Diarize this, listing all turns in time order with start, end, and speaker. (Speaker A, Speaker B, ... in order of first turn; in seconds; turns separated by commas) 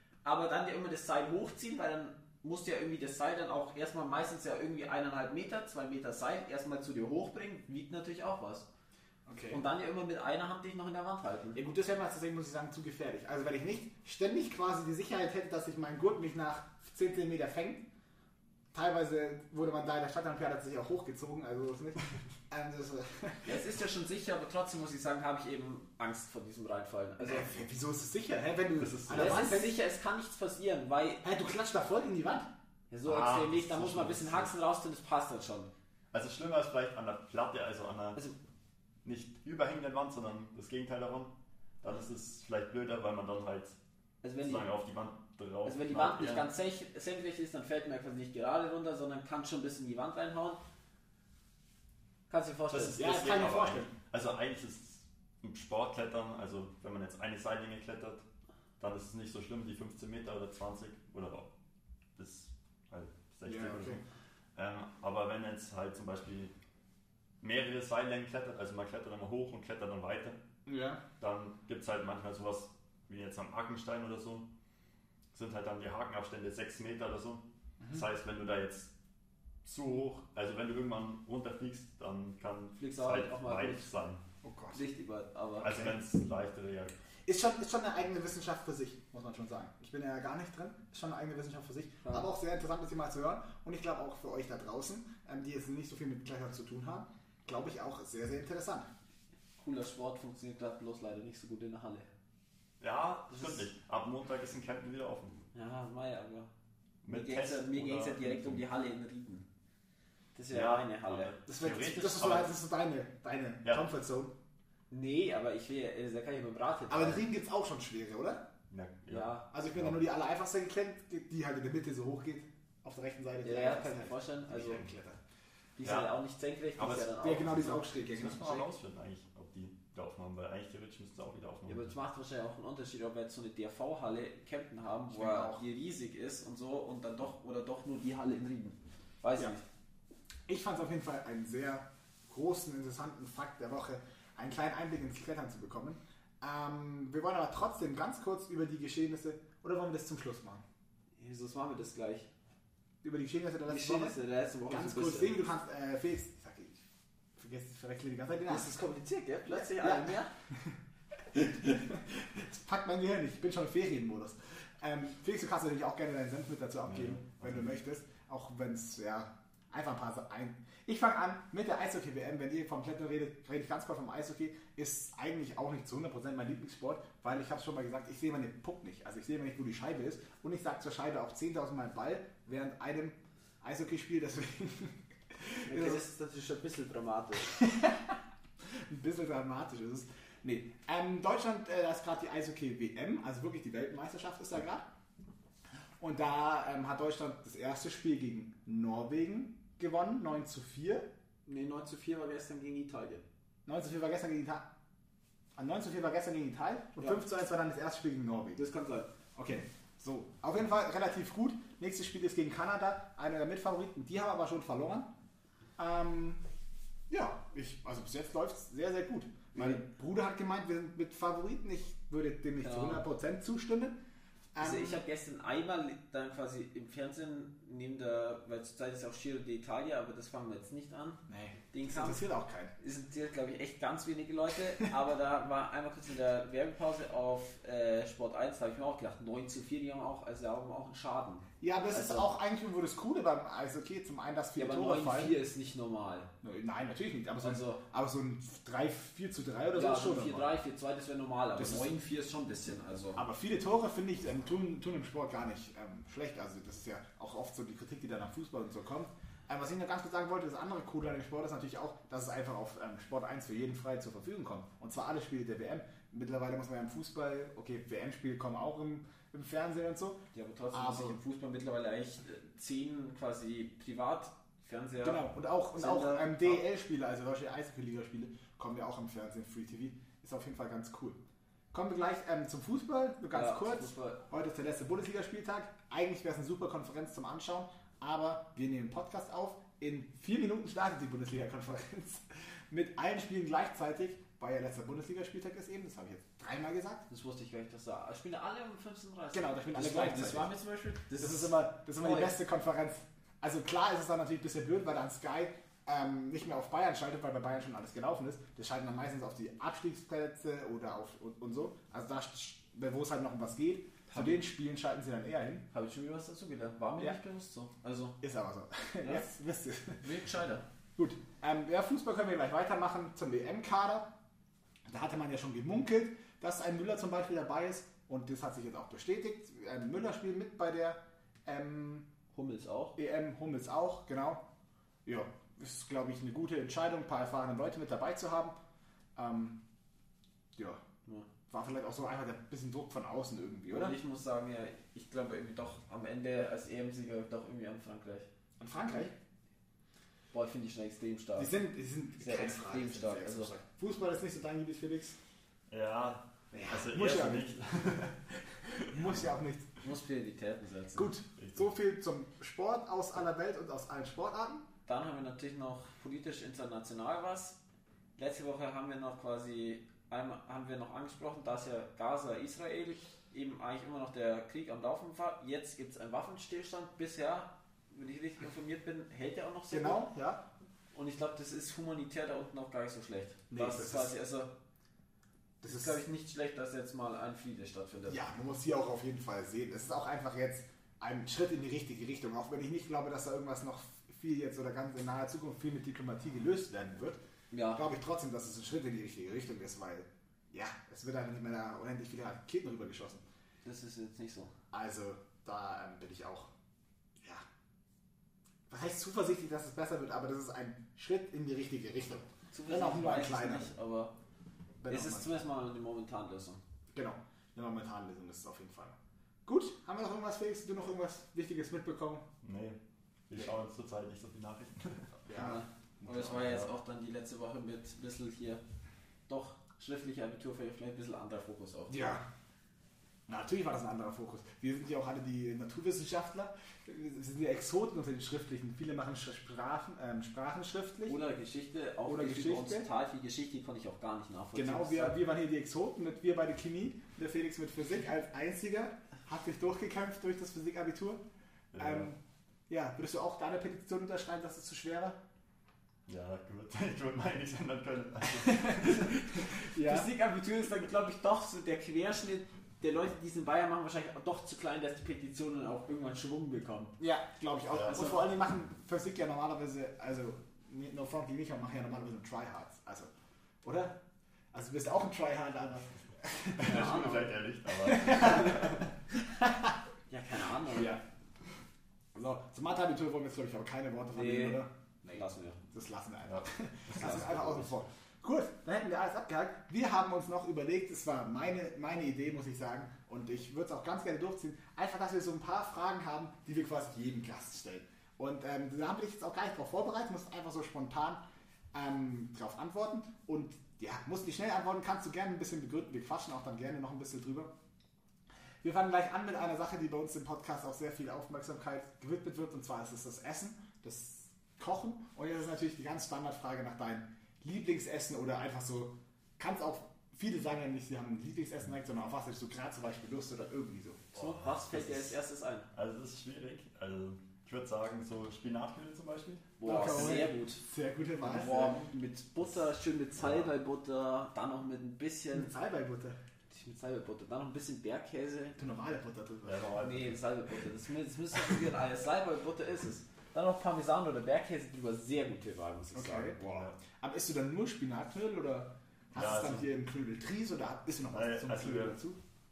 Speaker A: 0.2-8.7, Speaker B: 9.3-9.6, Speaker A: 9.5-11.6, Speaker B: 11.6-17.9, Speaker B: 18.7-23.6, Speaker A: 23.4-27.6, Speaker B: 27.2-29.8, Speaker C: 28.8-29.5, Speaker A: 29.1-31.2, Speaker B: 31.2-32.5, Speaker A: 32.9-35.7, Speaker C: 33.0-34.5, Speaker C: 36.1-38.2, Speaker C: 39.0-43.8, Speaker A: 44.2-44.7, Speaker C: 44.4-46.5, Speaker A: 45.6-50.6, Speaker A: 52.3-53.3, Speaker C: 52.7-58.2, Speaker B: 52.9-53.9, Speaker C: 58.8-61.5, Speaker C: 62.2-64.0, Speaker B: 63.5-64.0, Speaker C: 64.5-66.5, Speaker C: 67.4-70.4, Speaker B: 70.7-71.0, Speaker C: 71.2-74.5, Speaker C: 75.3-78.9, Speaker C: 79.7-84.2, Speaker A: 82.8-83.9, Speaker B: 84.4-84.8, Speaker A: 84.7-85.7, Speaker C: 85.6-86.9, Speaker B: 87.3-98.9, Speaker A: 99.6-102.1, Speaker C: 102.8-105.4, Speaker A: 103.3-103.7, Speaker A: 105.5-106.5, Speaker C: 107.0-108.7, Speaker A: 107.1-109.5, Speaker A: 110.3-111.3, Speaker C: 110.5-112.5, Speaker B: 111.5-114.3, Speaker A: 114.9-117.2, Speaker B: 116.9-118.4, Speaker C: 118.7-120.0, Speaker A: 119.1-119.5, Speaker B: 119.5-125.2, Speaker A: 123.4-124.8, Speaker A: 125.8-128.6, Speaker C: 125.8-126.1, Speaker C: 126.8-131.9, Speaker B: 127.2-128.6, Speaker A: 131.7-139.6, Speaker B: 135.1-135.6, Speaker B: 140.5-150.6, Speaker A: 151.2-152.3, Speaker B: 153.0-156.8, Speaker A: 153.7-155.4, Speaker B: 157.4-158.8, Speaker A: 158.5-160.3, Speaker B: 159.5-160.7, Speaker B: 161.3-186.0, Speaker C: 166.9-167.7, Speaker A: 185.7-187.6, Speaker B: 187.5-194.9, Speaker B: 196.0-201.1, Speaker A: 201.5-203.2, Speaker B: 203.7-204.7, Speaker B: 205.6-208.6, Speaker A: 208.6-209.1, Speaker B: 209.4-215.1, Speaker B: 215.8-216.4, Speaker B: 217.1-224.0, Speaker A: 219.6-219.8, Speaker A: 222.6-223.1, Speaker B: 224.5-225.0, Speaker A: 224.6-232.2, Speaker B: 231.3-232.7, Speaker A: 232.8-242.3, Speaker B: 241.6-245.4, Speaker A: 244.6-246.3, Speaker B: 246.4-250.5, Speaker A: 247.4-247.8, Speaker A: 249.7-253.2, Speaker B: 251.6-251.9, Speaker B: 253.2-271.2, Speaker A: 270.3-276.6, Speaker B: 275.0-281.2, Speaker B: 281.7-297.0, Speaker A: 283.3-284.2, Speaker A: 297.1-302.3, Speaker B: 299.3-300.5, Speaker B: 301.2-315.7, Speaker A: 314.1-314.4, Speaker A: 315.7-318.2, Speaker B: 318.2-320.0, Speaker A: 320.0-320.6, Speaker B: 321.0-324.1, Speaker B: 324.9-332.1, Speaker A: 332.3-333.0, Speaker B: 333.0-334.4, Speaker B: 335.1-338.6, Speaker B: 339.2-339.6, Speaker B: 340.6-340.8, Speaker B: 341.5-344.0, Speaker A: 343.7-348.3, Speaker B: 348.6-349.1, Speaker A: 350.3-351.5, Speaker B: 351.4-355.2, Speaker A: 352.2-353.5, Speaker C: 355.7-358.2, Speaker B: 356.5-357.5, Speaker B: 358.5-359.7, Speaker A: 359.8-361.1, Speaker B: 360.9-364.7, Speaker C: 361.4-361.6, Speaker A: 364.9-367.6, Speaker A: 368.2-380.1, Speaker B: 379.7-380.4, Speaker A: 380.9-384.5, Speaker B: 383.5-384.1, Speaker B: 385.6-385.9, Speaker A: 385.6-388.2, Speaker B: 388.1-397.2, Speaker A: 397.5-397.8, Speaker B: 397.7-403.2, Speaker A: 403.6-404.5, Speaker B: 404.7-406.5, Speaker B: 408.7-413.7, Speaker A: 412.5-414.1, Speaker B: 414.8-415.4, Speaker A: 414.9-416.6, Speaker B: 416.9-422.2, Speaker C: 422.4-422.8, Speaker C: 423.3-425.2, Speaker B: 425.3-425.6, Speaker A: 425.3-428.6, Speaker C: 426.1-426.7, Speaker A: 429.3-432.1, Speaker B: 431.9-432.2, Speaker B: 433.3-441.2, Speaker A: 441.1-445.2, Speaker B: 442.1-442.9, Speaker B: 444.5-451.2, Speaker C: 451.7-452.1, Speaker B: 451.8-455.2, Speaker C: 456.1-459.1, Speaker B: 458.4-460.1, Speaker A: 459.7-467.0, Speaker B: 467.0-473.1, Speaker C: 467.7-468.1, Speaker A: 467.9-468.1, Speaker B: 473.6-474.0, Speaker B: 474.5-479.8, Speaker C: 476.6-478.9, Speaker A: 476.6-477.3, Speaker A: 480.1-481.0, Speaker B: 480.7-481.0, Speaker B: 482.1-501.2, Speaker A: 484.1-485.6, Speaker C: 486.3-487.6, Speaker A: 487.0-487.6, Speaker B: 501.7-507.5, Speaker B: 508.6-524.0, Speaker C: 524.1-525.2, Speaker A: 524.1-525.7, Speaker C: 525.7-530.1, Speaker A: 529.6-530.6, Speaker B: 529.6-531.8, Speaker A: 531.2-535.5, Speaker C: 533.2-533.5, Speaker B: 535.3-536.2, Speaker A: 536.5-538.6, Speaker B: 538.6-539.7, Speaker C: 539.5-540.2, Speaker A: 539.8-546.4, Speaker B: 545.9-552.2, Speaker C: 546.5-546.8, Speaker C: 549.1-549.7, Speaker C: 551.1-552.0